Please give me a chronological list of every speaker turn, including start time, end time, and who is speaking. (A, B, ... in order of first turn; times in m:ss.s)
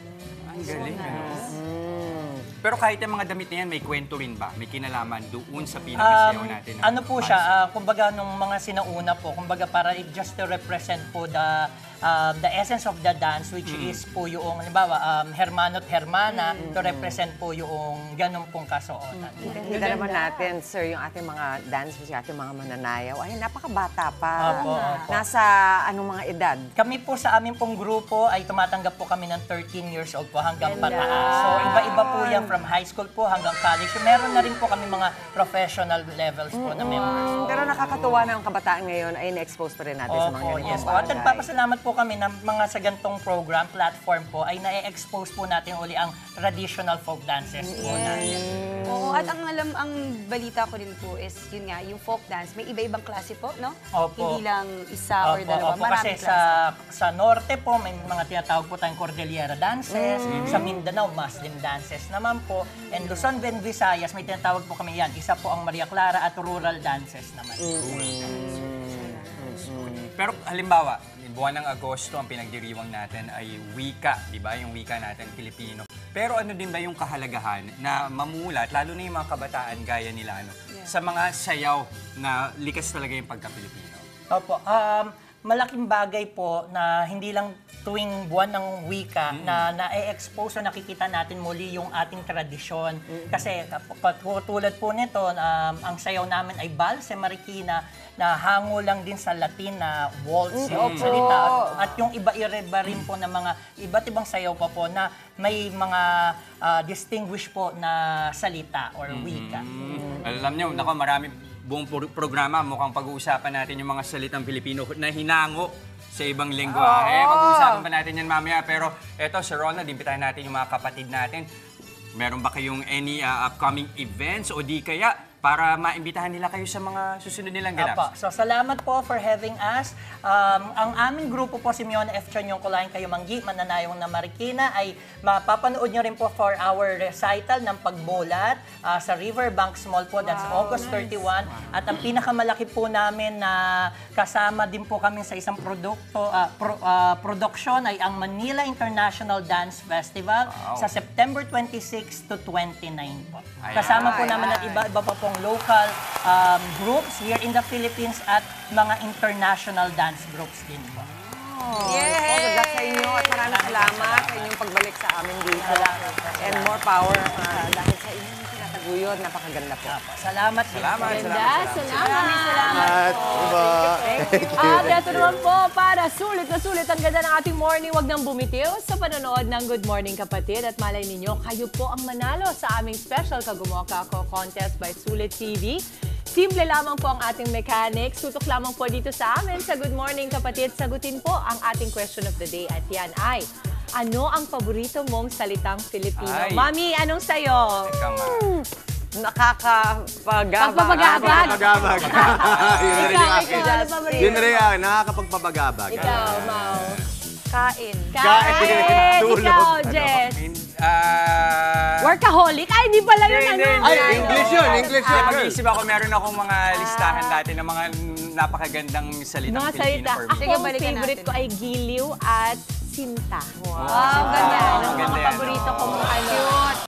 0:00.4-0:01.5 A
0:00.6-0:01.5 B
0:01.2-0:02.4 C
0:02.6-0:07.5 A
0:06.0-0:19.8 D
0:13.6-0:14.0 A
0:16.3-0:16.6 B
0:16.6-0:17.2 C
0:19.4-0:26.7 C
0:19.4-0:20.5 E
0:24.4-0:25.2 D
0:24.5-0:25.1 B
0:26.8-0:37.8 D
0:30.6-0:32.0 E
0:30.8-0:32.5 C
0:36.5-0:41.5 C
0:40.1-0:48.7 D
0:47.6-0:49.3 C
0:47.7-0:56.6 B
0:53.9-0:54.4 D
0:55.2-1:07.8 D
0:59.9-1:00.7 C
1:00.2-1:00.7 A
1:02.9-1:03.2 B
1:07.7-1:10.1 C
1:07.7-1:08.4 A
1:08.3-1:09.4 B
1:10.1-1:24.0 A
1:24.3-1:49.6 D
1:29.3-1:29.7 A
1:40.5-1:41.8 C
1:40.7-1:41.4 A
1:49.1-2:01.5 A
1:56.6-1:57.8 C
2:02.1-2:08.0 A
2:07.8-2:41.1 D
2:20.2-2:21.2 E
2:30.5-2:30.9 A
2:33.6-2:34.5 A
2:33.7-2:34.9 C
2:41.1-2:50.0 C
2:41.8-2:43.4 B
2:43.4-2:44.5 D
2:45.6-2:46.8 D
2:49.9-2:51.7 D
2:50.7-2:52.1 A
2:51.0-2:52.9 E
2:51.9-2:53.4 B
2:52.7-2:55.4 F
2:52.8-2:55.0 C
2:54.5-3:13.4 E
3:14.0-3:17.9 E
3:16.2-3:16.7 A
3:17.8-3:18.5 A
3:18.2-3:22.1 C
3:20.6-3:24.6 E
3:20.9-3:26.9 F
3:21.7-3:22.9 A
3:23.0-3:24.2 B
3:23.0-3:24.4 C
3:25.9-3:27.0 E
3:25.9-3:27.0 A
3:27.5-3:28.2 B
3:28.1-3:30.4 E
3:28.2-3:30.1 F
3:29.9-3:32.2 A
3:32.0-3:35.4 E
3:33.2-3:40.5 A
3:33.8-3:35.6 F
3:36.7-3:37.4 E
3:39.5-3:46.6 E
3:40.4-3:41.4 B
3:43.6-3:45.1 C
3:43.8-3:46.2 A
3:43.8-3:45.2 B